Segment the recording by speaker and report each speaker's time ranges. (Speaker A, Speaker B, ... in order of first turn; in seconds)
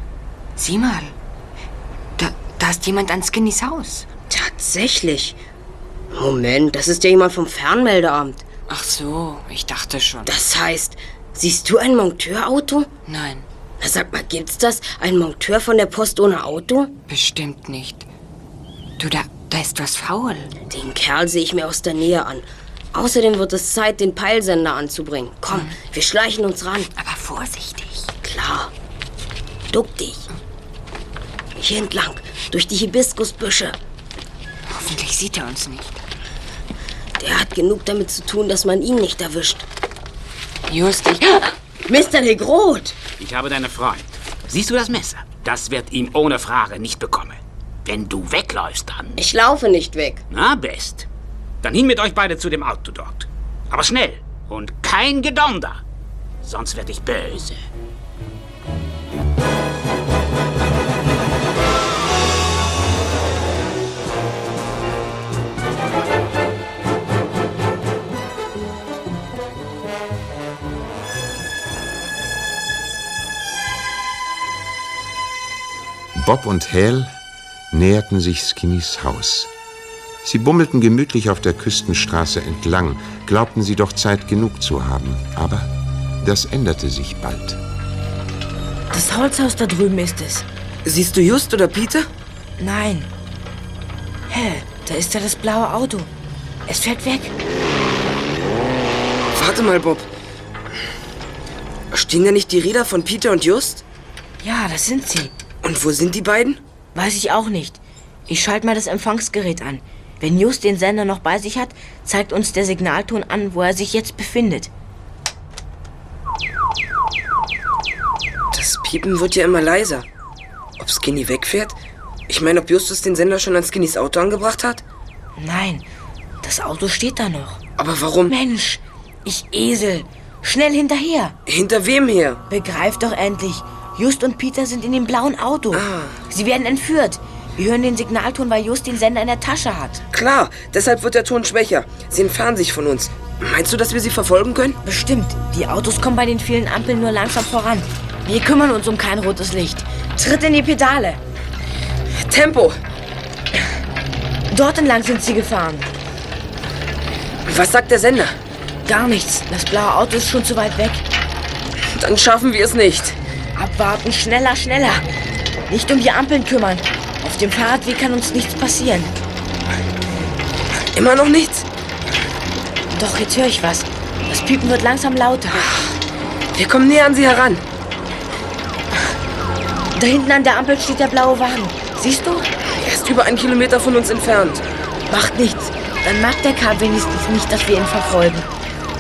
Speaker A: 0.6-1.1, 2.2-4.1, 8.7-10.3, 13.1-13.4, 17.1-18.1, 19.0-20.5, 27.0-28.1, 34.7-36.0, 40.7-41.5
Speaker B: 4.3-5.4, 6.1-8.4, 10.2-12.9, 13.8-16.9, 20.7-26.9, 28.2-28.7, 29.7-30.3, 31.6-33.8, 37.2-39.6, 41.9-43.0, 49.2-50.2
Speaker C: 43.2-49.2, 50.3-51.1, 51.6-55.8, 56.4-57.6
Speaker D: 76.2-77.1, 77.7-79.5, 80.2-85.7, 86.2-87.6
Speaker E: 88.9-90.5, 92.6-93.1, 94.3-96.1, 96.7-97.3, 104.4-105.3, 107.0-114.7, 125.4-125.9, 126.4-127.6, 128.3-131.4, 132.5-140.0, 144.8-151.2, 154.5-155.9, 158.8-161.0, 163.6-165.1, 165.7-169.2, 172.9-175.7, 179.9-182.5, 185.1-188.5
Speaker F: 90.8-92.1, 99.3-100.1, 101.9-103.8, 105.6-106.6, 118.5-120.1, 120.8-121.8, 122.3-124.8, 127.8-128.3, 131.5-132.4, 135.7-136.2, 140.1-144.8, 152.2-152.8, 157.5-158.4, 161.9-163.2, 170.9-171.7, 176.5-177.6, 182.8-184.6